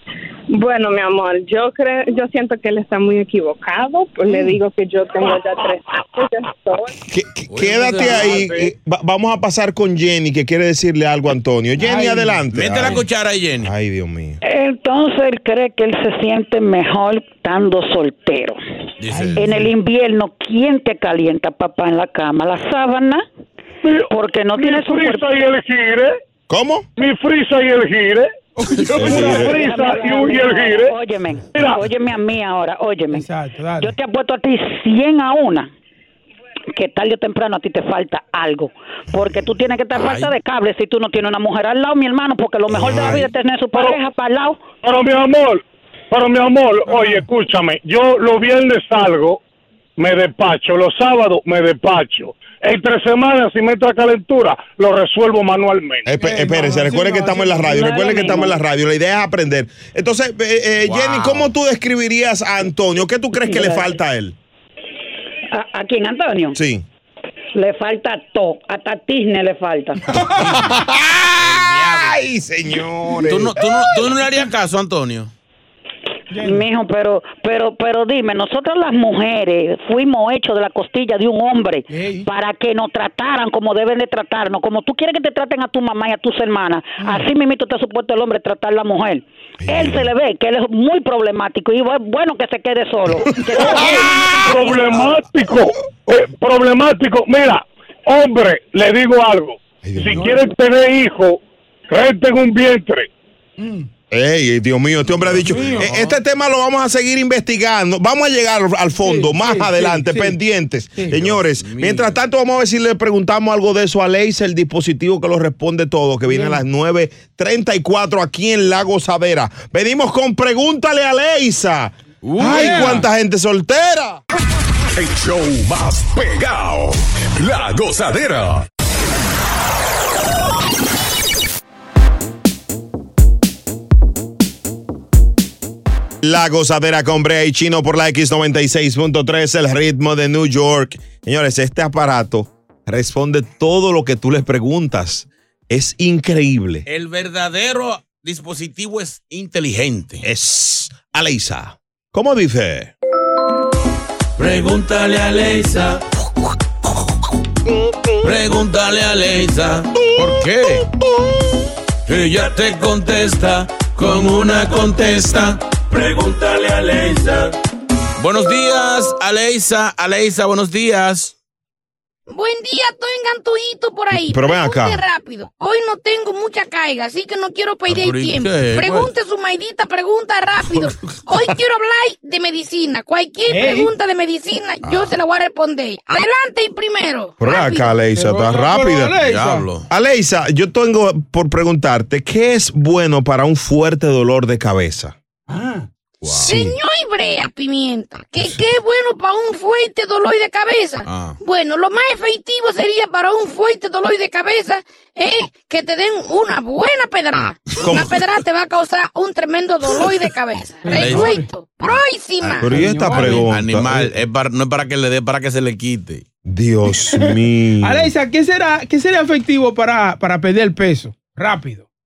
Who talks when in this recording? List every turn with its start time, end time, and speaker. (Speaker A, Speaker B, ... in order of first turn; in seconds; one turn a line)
Speaker A: 0.5-6.9
Speaker B: 7.1-13.0
Speaker C: 7.5-8.6
Speaker D: 11.8-12.4
Speaker C: 12.5-13.7
Speaker B: 13.6-14.4
Speaker E: 14.4-18.6
Speaker C: 19.0-19.5
Speaker D: 19.1-19.7
Speaker E: 19.4-23.2
Speaker E: 24.1-25.3
Speaker F: 24.6-26.1
Speaker B: 26.5-26.9
Speaker F: 27.0-28.3
Speaker D: 28.6-30.3
Speaker B: 28.9-29.6
Speaker E: 29.0-33.3
Speaker F: 29.5-30.9
Speaker D: 33.1-34.0
Speaker E: 33.8-35.7
Speaker E: 36.7-44.6
Speaker C: 39.9-40.4
Speaker B: 42.7-43.3
Speaker C: 42.9-43.2
Speaker F: 43.7-44.0
Speaker F: 44.8-49.4
Speaker D: 46.9-47.2
Speaker F: 50.0-56.1
Speaker B: 56.0-64.3
Speaker D: 56.1-58.5
Speaker C: 60.8-61.5
Speaker E: 63.4-63.9
Speaker E: 65.5-66.6
Speaker B: 66.5-66.8
Speaker E: 67.5-70.0
Speaker D: 70.0-70.6
Speaker C: 70.4-70.8
Speaker B: 70.4-73.6
Speaker C: 71.4-72.2
Speaker C: 73.2-75.3
Speaker D: 76.3-76.7
Speaker E: 76.4-95.0
Speaker D: 81.9-82.3
Speaker D: 87.0-87.3
Speaker B: 89.6-90.1
Speaker D: 93.5-93.9
Speaker F: 94.5-103.1
Speaker B: 99.8-100.4
Speaker D: 100.0-100.4
Speaker D: 103.6-103.9
Speaker B: 104.1-124.2
Speaker C: 105.0-106.2
Speaker D: 105.4-106.0
Speaker D: 109.0-110.4
Speaker D: 111.0-111.3
Speaker C: 111.1-112.2
Speaker D: 116.3-116.6
Speaker C: 122.2-123.0
Speaker D: 122.4-123.0
Speaker G: 125.0-128.7
Speaker B: 136.2-146.9
Speaker C: 146.9-150.2
Speaker B: 150.2-152.9
Speaker C: 154.4-156.0
Speaker C: 158.2-160.9
Speaker C: 162.1-167.5
Speaker C: 168.2-171.3
Speaker H: 172.3-187.9
Speaker B: 174.1-175.0
Speaker C: 177.9-179.1
Speaker C: 180.8-181.1
Speaker D: 183.5-183.9
Speaker C: 184.8-185.2
Speaker B: 187.4-189.2
Speaker D: 188.1-189.7
Speaker C: 189.2-189.9
Speaker B: 189.9-195.2
Speaker D: 195.5-195.9
Speaker B: 196.2-196.8
Speaker H: 196.4-212.9
Speaker C: 201.1-201.4
Speaker B: 207.8-208.1
Speaker D: 210.8-211.5
Speaker C: 210.9-211.4
Speaker B: 212.6-214.1
Speaker D: 212.6-213.4
Speaker C: 213.1-216.2
Speaker B: 216.4-218.1
Speaker D: 217.1-221.9